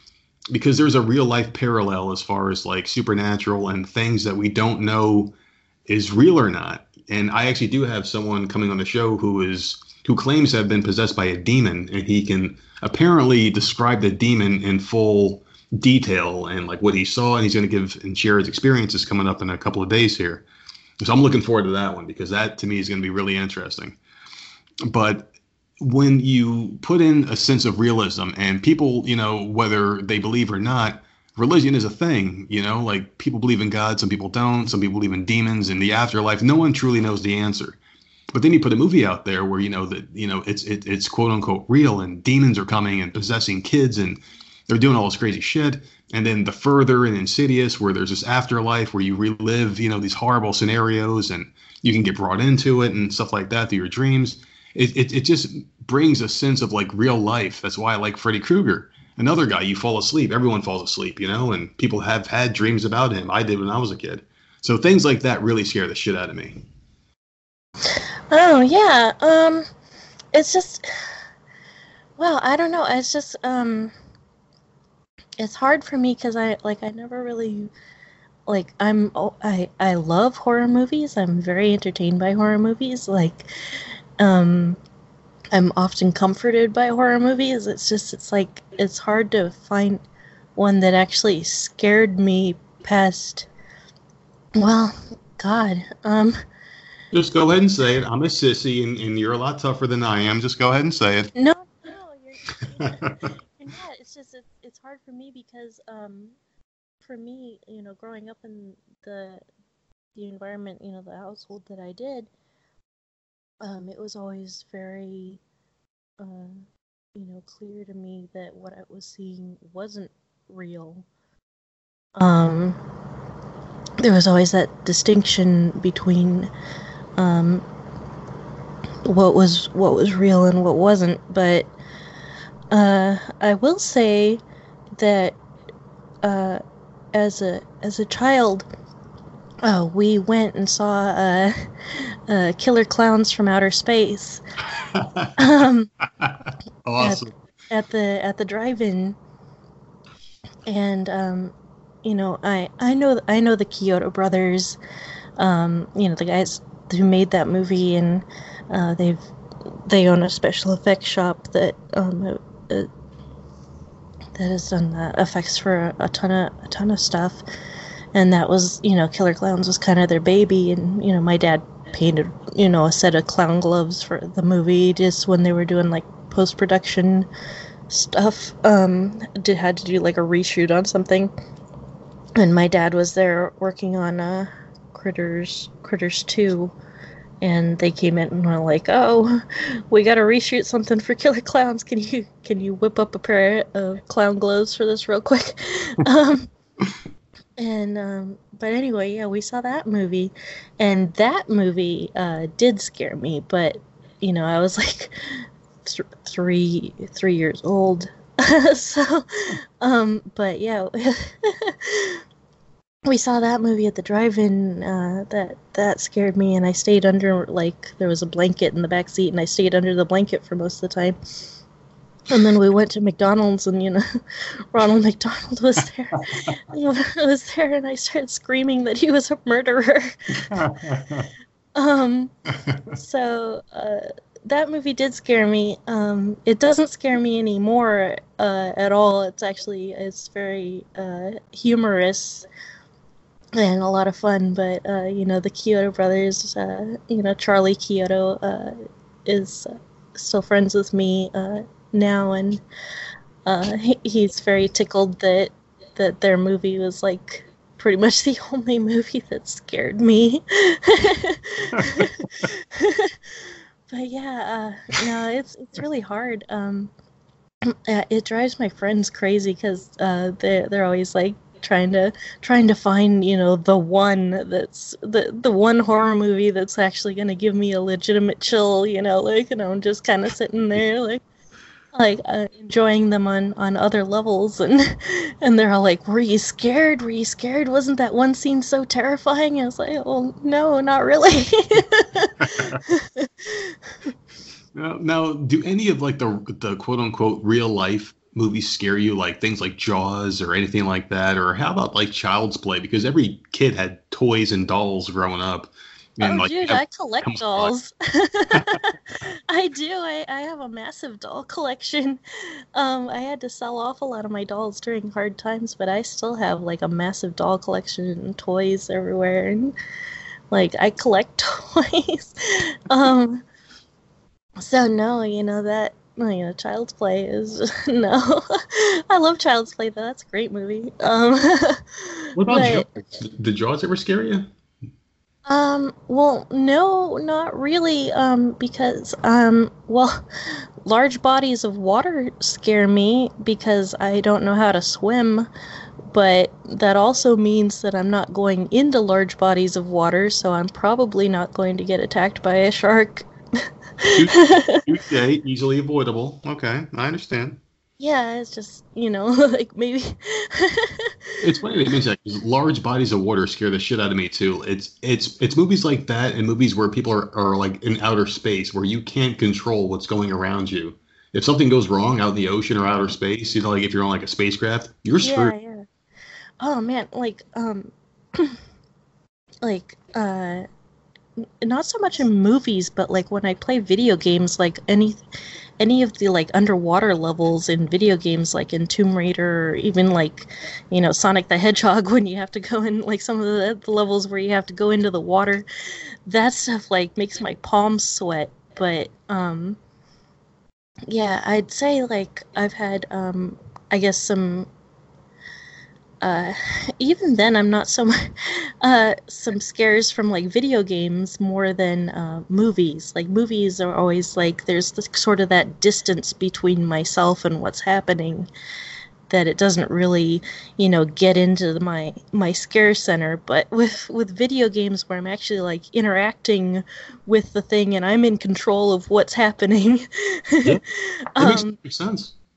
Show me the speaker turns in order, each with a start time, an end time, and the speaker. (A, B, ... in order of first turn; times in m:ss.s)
0:00.5-0:05.3 A
0:05.9-0:20.4 A
0:21.0-0:24.0 A
0:24.9-0:37.8 A
0:38.3-1:06.6 A
1:07.9-1:09.7 B
1:10.3-1:11.1 B
1:12.2-1:13.9 B
1:15.4-1:17.7 B
1:18.5-1:24.8 B
1:25.5-1:30.0 B
1:30.6-1:33.5 B
1:34.6-1:36.4 B
1:37.1-1:41.3 A
1:41.4-1:43.0 B
1:42.8-1:43.3 A
1:43.6-1:46.4 B
1:47.0-1:49.4 B
1:50.2-1:52.3 B
1:53.6-1:55.4 B
1:56.2-1:56.6 B
1:57.2-2:01.1 B
2:02.2-2:02.8 B
2:04.0-2:06.5 B
2:07.2-2:07.6 B
2:09.0-2:11.7 B
2:12.7-2:14.4 B
2:15.0-2:15.4 B
2:16.2-2:16.6 B
2:17.1-2:18.7 B
2:19.6-2:24.4 B
2:24.8-2:25.4 A
2:25.4-2:25.9 B
2:26.2-2:27.4 A
2:27.0-2:29.2 B
2:30.7-2:34.8 B
2:35.4-2:39.3 B
2:39.9-2:42.9 B
2:44.4-2:47.4 B
2:48.1-2:57.3 B
2:57.9-3:01.3 B
3:02.4-3:06.7 B
3:07.4-3:16.5 B
3:17.6-3:32.2 B
3:33.1-3:41.5 B
3:42.3-3:50.6 B
3:50.5-3:51.3 A
3:51.8-3:52.3 B
3:52.9-4:02.5 B
4:03.6-4:08.8 B
4:09.3-4:12.6 B
4:13.5-4:23.2 B
4:21.8-4:22.0 A
4:23.9-4:26.9 B
4:27.7-4:41.2 B
4:41.9-4:53.8 B
4:52.4-4:52.8 A
4:54.7-5:07.7 A
5:06.2-5:12.2 B
5:12.8-5:19.7 B
5:20.5-5:23.4 B
5:24.6-5:32.9 B
5:32.4-5:34.5 A
5:35.5-5:45.5 B
5:46.1-5:53.3 B
5:54.0-5:54.8 B
5:54.1-5:57.6 A
5:58.0-6:01.1 B
6:01.4-6:15.5 A
6:15.2-6:15.9 B
6:16.6-6:18.6 B
6:19.6-6:20.7 B
6:21.6-6:25.2 B
6:25.8-6:35.6 B
6:36.3-6:39.8 B
6:41.1-6:44.7 B
6:46.2-6:58.5 B
6:59.3-7:11.8 B
7:11.4-7:12.3 A